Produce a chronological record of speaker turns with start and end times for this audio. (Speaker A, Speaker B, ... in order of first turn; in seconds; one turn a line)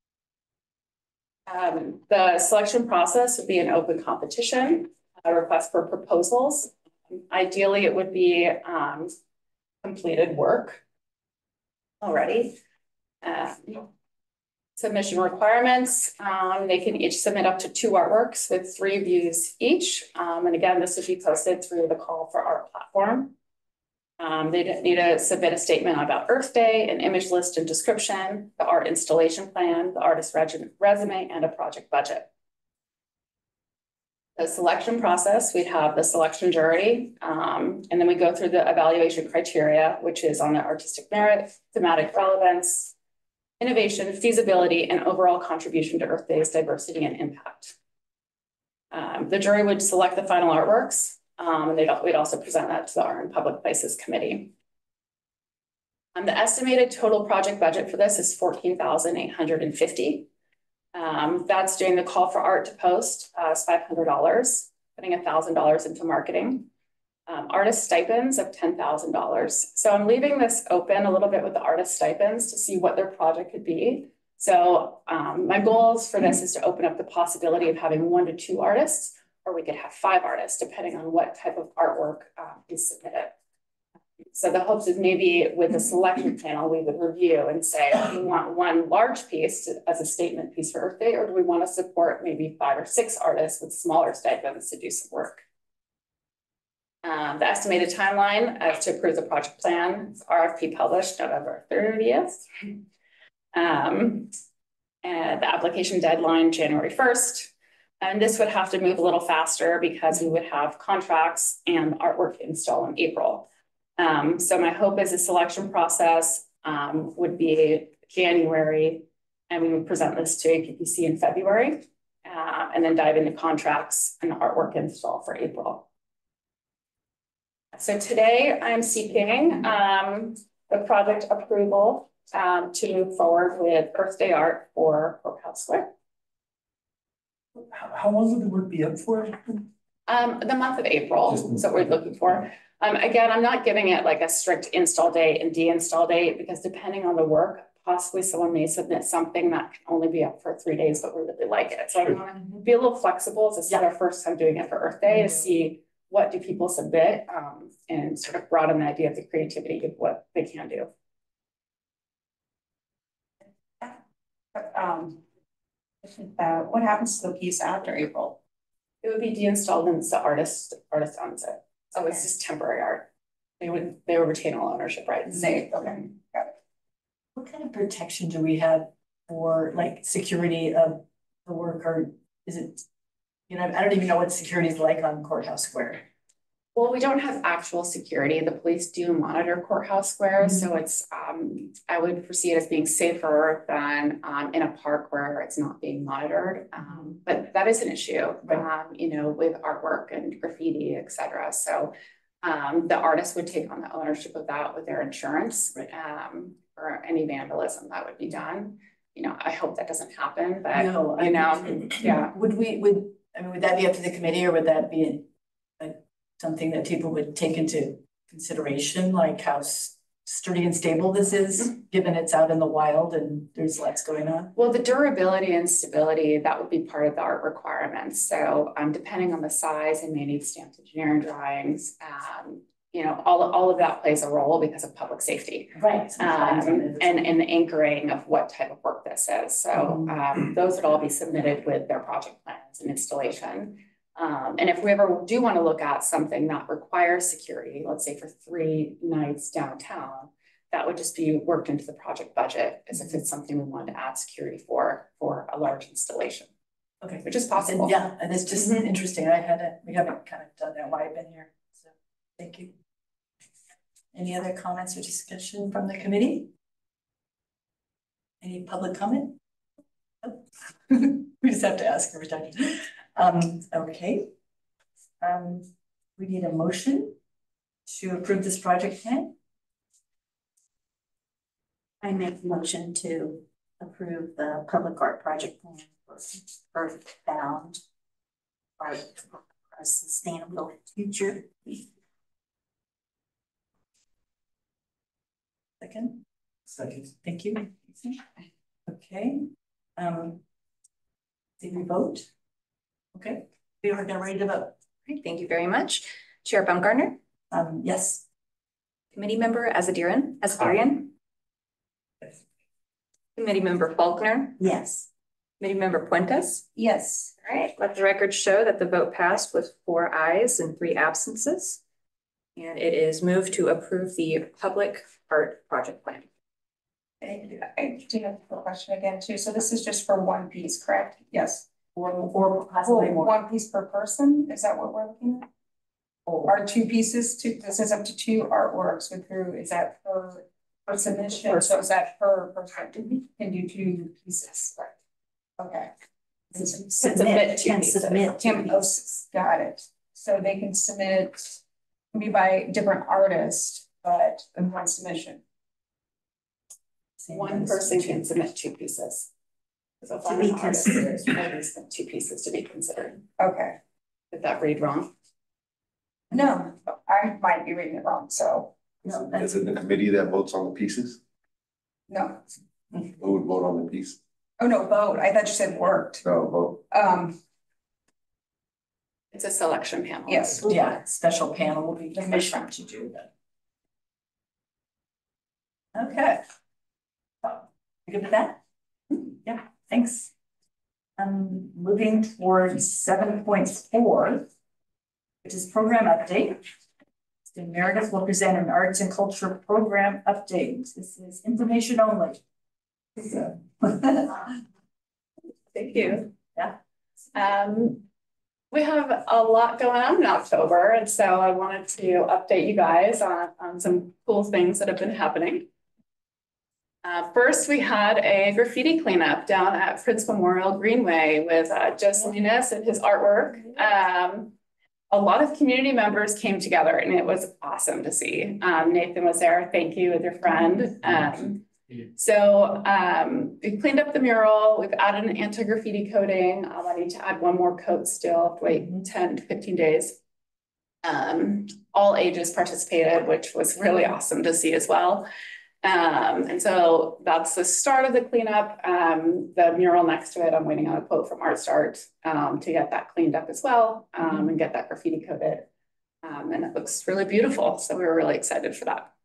Speaker A: 1.5-9.1
Speaker A: 9.8-10.8
Speaker A: 12.0-12.6
Speaker A: 13.2-13.9
Speaker A: 14.8-23.3
Speaker A: 24.2-32.3
Speaker A: 34.4-42.9
Speaker A: 43.6-47.8
Speaker A: 48.9-54.5
Speaker A: 56.1-60.3
Speaker A: 60.9-66.7
Speaker A: 67.3-83.3
Speaker A: 84.3-95.4
Speaker A: 97.0-102.8
Speaker A: 103.5-104.3
Speaker A: 105.0-113.5
Speaker A: 114.0-125.8
Speaker A: 127.7-135.9
Speaker B: 137.6-139.7
Speaker A: 140.1-160.9
Speaker B: 141.3-141.8
Speaker C: 164.6-165.2
Speaker C: 166.0-168.4
Speaker A: 169.0-173.1
Speaker A: 173.6-175.7
Speaker C: 175.3-176.5
Speaker D: 177.3-182.8
Speaker D: 183.5-186.0
Speaker A: 186.8-212.3
Speaker D: 210.7-215.3
Speaker D: 215.8-224.5
Speaker A: 224.6-256.5
Speaker D: 235.8-237.2
Speaker D: 239.7-240.2
Speaker D: 257.0-262.8
Speaker A: 257.2-258.0
Speaker D: 264.1-266.5
Speaker D: 268.4-269.4
Speaker D: 270.2-274.3
Speaker D: 275.2-277.1
Speaker D: 277.9-279.4
Speaker E: 282.0-287.8
Speaker E: 288.8-291.7
Speaker D: 295.8-296.2
Speaker B: 296.7-297.1
Speaker D: 297.2-298.2
Speaker D: 298.9-300.4
Speaker D: 301.6-302.3
Speaker D: 303.1-304.7
Speaker F: 305.1-307.2
Speaker D: 307.5-308.2
Speaker F: 309.1-311.1
Speaker F: 313.4-314.6
Speaker E: 314.6-315.1
Speaker F: 315.6-321.8
Speaker F: 322.6-326.3
Speaker D: 327.2-327.6
Speaker C: 327.4-331.6
Speaker D: 331.9-333.4
Speaker C: 332.8-335.5
Speaker D: 336.3-336.6
Speaker C: 336.4-344.9
Speaker C: 345.6-345.9
Speaker C: 346.5-347.0
Speaker E: 346.7-348.8
Speaker A: 347.0-348.3
Speaker C: 348.3-351.6
Speaker C: 352.1-355.4
Speaker D: 357.2-358.3
Speaker A: 357.3-359.3
Speaker A: 360.0-363.2
Speaker D: 360.3-361.1
Speaker C: 363.4-363.8
Speaker A: 364.3-365.1
Speaker C: 366.3-368.7
Speaker D: 369.1-369.6
Speaker G: 369.1-371.2
Speaker C: 372.1-372.4
Speaker G: 373.2-374.2
Speaker C: 374.6-376.2
Speaker G: 376.2-376.8
Speaker C: 376.9-377.4
Speaker A: 379.3-380.9
Speaker C: 380.3-380.7
Speaker D: 380.6-383.3
Speaker D: 385.9-386.4
Speaker D: 387.4-388.6
Speaker D: 389.3-390.3
Speaker D: 391.2-394.5
Speaker D: 395.4-396.6
Speaker D: 397.5-402.4
Speaker D: 403.2-404.5
Speaker A: 405.7-406.3
Speaker A: 407.3-408.1
Speaker A: 408.7-415.7
Speaker A: 417.0-424.6
Speaker A: 425.1-440.2
Speaker D: 438.7-439.0
Speaker A: 441.0-445.3
Speaker A: 445.8-455.7
Speaker A: 456.2-459.1